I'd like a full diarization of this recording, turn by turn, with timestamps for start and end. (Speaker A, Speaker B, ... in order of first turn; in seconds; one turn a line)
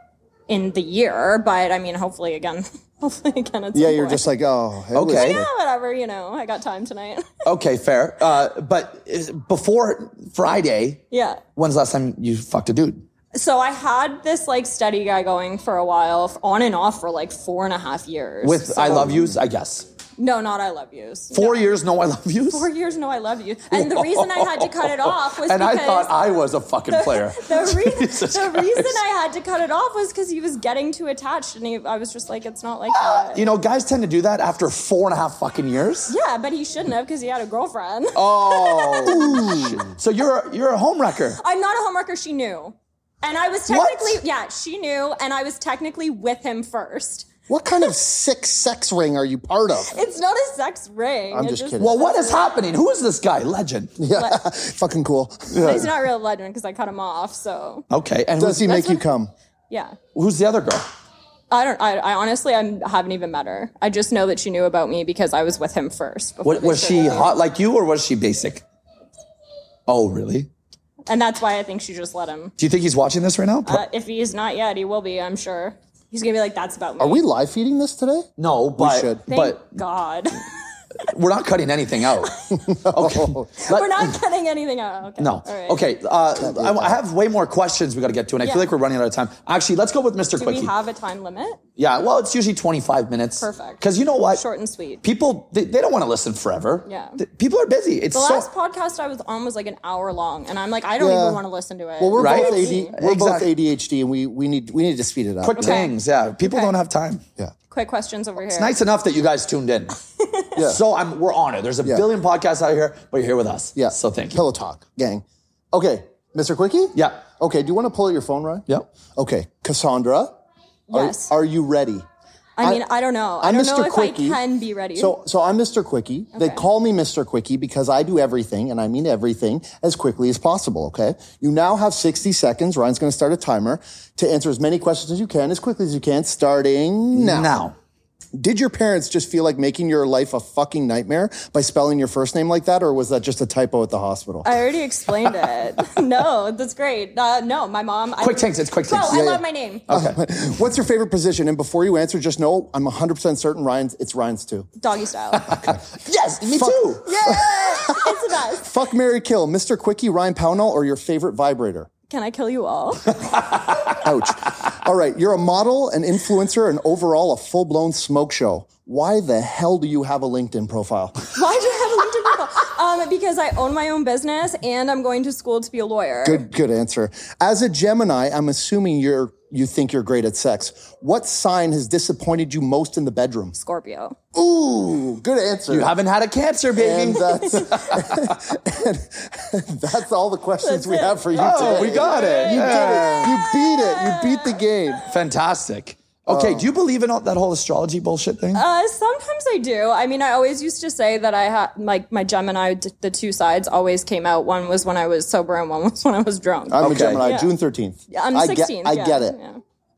Speaker A: 0.5-4.3
Speaker B: 3.7-5.5
Speaker C: 4.9-5.4
Speaker A: 5.1-7.4
Speaker C: 7.4-11.0
Speaker A: 11.1-11.4
Speaker C: 11.6-13.1
Speaker A: 13.3-19.1
Speaker C: 18.4-19.9
Speaker A: 20.2-21.7
Speaker C: 21.3-22.7
Speaker A: 22.5-26.2
Speaker C: 23.7-29.0
Speaker A: 26.9-33.4
Speaker C: 32.9-36.1
Speaker A: 36.1-39.7
Speaker C: 38.1-41.4
Speaker B: 39.0-39.9
Speaker A: 41.4-47.3
Speaker C: 43.7-44.2
Speaker B: 47.5-50.0
Speaker A: 49.9-52.7
Speaker B: 51.3-51.9
Speaker C: 51.8-54.0
Speaker B: 54.0-55.9
Speaker A: 54.1-54.5
Speaker C: 55.5-55.8
Speaker A: 55.5-57.9
Speaker C: 57.9-58.9
Speaker B: 58.4-59.3
Speaker A: 58.7-59.0
Speaker A: 59.7-60.0
Speaker C: 60.1-60.9
Speaker A: 61.5-67.3
Speaker C: 66.4-68.6
Speaker C: 69.9-70.5
Speaker A: 71.1-72.5
Speaker C: 72.6-73.8
Speaker A: 73.7-77.2
Speaker B: 77.0-79.2
Speaker C: 78.4-79.8
Speaker A: 79.3-80.5
Speaker C: 81.0-84.1
Speaker A: 82.2-82.6
Speaker B: 82.7-83.5
Speaker A: 83.6-85.8
Speaker C: 85.2-90.7
Speaker B: 86.4-87.0
Speaker A: 88.4-88.7
Speaker A: 90.4-91.6
Speaker C: 91.8-94.4
Speaker A: 93.4-95.0
Speaker C: 95.0-98.5
Speaker A: 96.9-97.2
Speaker A: 98.1-103.0
Speaker B: 101.0-101.4
Speaker B: 102.0-105.8
Speaker C: 102.2-103.5
Speaker C: 105.4-107.2
Speaker A: 105.5-106.8
Speaker A: 107.7-108.8
Speaker C: 108.5-110.0
Speaker A: 110.2-110.6
Speaker B: 110.6-110.8
Speaker C: 110.6-114.4
Speaker B: 113.8-118.7
Speaker C: 117.0-117.2
Speaker B: 119.2-120.4
Speaker A: 120.9-121.3
Speaker B: 120.9-122.0
Speaker A: 122.6-125.2
Speaker B: 123.4-124.4
Speaker B: 125.0-137.6
Speaker A: 126.3-126.6
Speaker C: 137.1-137.8
Speaker B: 138.4-144.6
Speaker A: 144.4-149.9
Speaker C: 148.2-149.2
Speaker B: 149.1-154.7
Speaker C: 149.9-150.2
Speaker A: 154.8-155.6
Speaker C: 155.4-157.3
Speaker B: 156.5-161.9
Speaker A: 157.1-158.7
Speaker A: 162.1-163.2
Speaker C: 163.5-163.8
Speaker B: 164.0-171.2
Speaker A: 171.3-176.4
Speaker B: 176.2-183.6
Speaker A: 183.6-184.2
Speaker B: 184.3-185.9
Speaker C: 185.7-188.4
Speaker B: 186.8-195.0
Speaker A: 187.4-187.8
Speaker A: 190.6-195.1
Speaker C: 191.3-193.3
Speaker C: 195.1-198.6
Speaker B: 196.3-196.7
Speaker A: 198.5-207.5
Speaker B: 206.7-209.4
Speaker C: 206.8-207.3
Speaker A: 208.1-209.6